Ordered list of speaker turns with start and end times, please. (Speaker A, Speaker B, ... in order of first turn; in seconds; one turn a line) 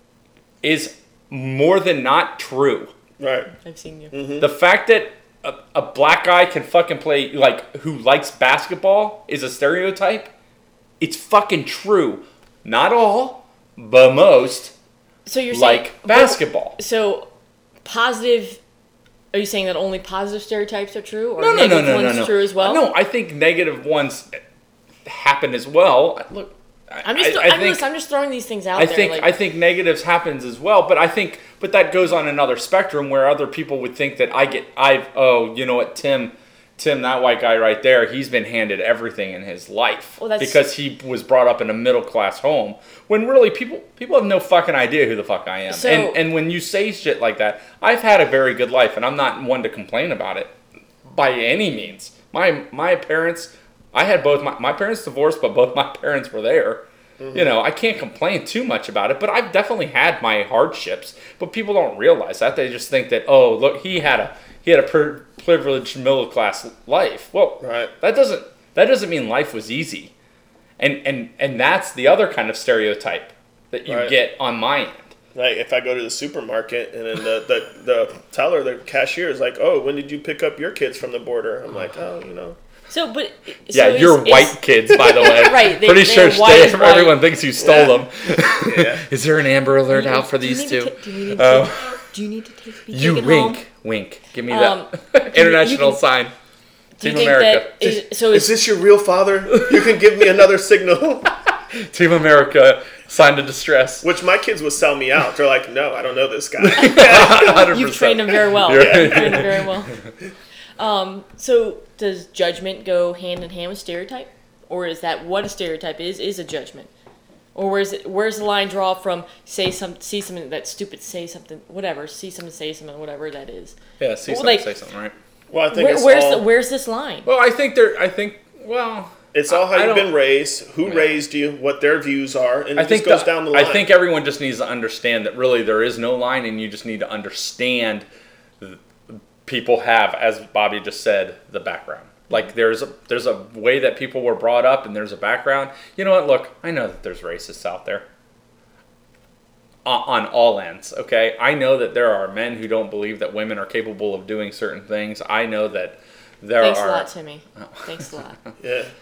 Speaker A: 0.6-2.9
Speaker B: 3.2-3.5
Speaker C: 3.6-4.1
Speaker B: 4.1-4.5
Speaker A: 4.4-10.3
Speaker A: 11.0-14.7
Speaker C: 15.2-17.3
Speaker A: 15.5-16.8
Speaker C: 17.8-18.6
Speaker C: 19.3-22.8
Speaker A: 21.4-24.4
Speaker A: 25.0-27.8
Speaker C: 27.0-29.3
Speaker A: 28.8-50.5
Speaker C: 40.2-40.6
Speaker C: 45.7-46.2
Speaker A: 51.0-70.1
Speaker B: 57.2-57.5
Speaker B: 67.6-67.9
Speaker A: 70.8-75.1
Speaker B: 73.9-74.1
Speaker B: 75.3-82.6
Speaker C: 82.9-87.2
Speaker A: 83.7-92.0
Speaker B: 87.6-88.0
Speaker B: 88.5-89.0
Speaker C: 89.9-93.6
Speaker A: 92.9-96.3
Speaker C: 94.5-96.0
Speaker C: 97.0-98.5
Speaker A: 97.0-98.0
Speaker B: 98.3-101.3
Speaker A: 101.7-104.0
Speaker B: 104.0-107.7
Speaker A: 106.6-109.7
Speaker C: 106.8-109.9
Speaker B: 108.7-109.5
Speaker C: 110.8-116.9
Speaker C: 117.5-124.7
Speaker A: 124.0-125.1
Speaker B: 125.5-126.4
Speaker C: 125.7-127.3
Speaker A: 127.2-130.1
Speaker B: 129.3-133.8
Speaker A: 130.8-131.2
Speaker A: 132.8-138.0
Speaker A: 138.6-148.1
Speaker A: 149.8-158.1
Speaker C: 156.6-158.4
Speaker B: 158.6-158.9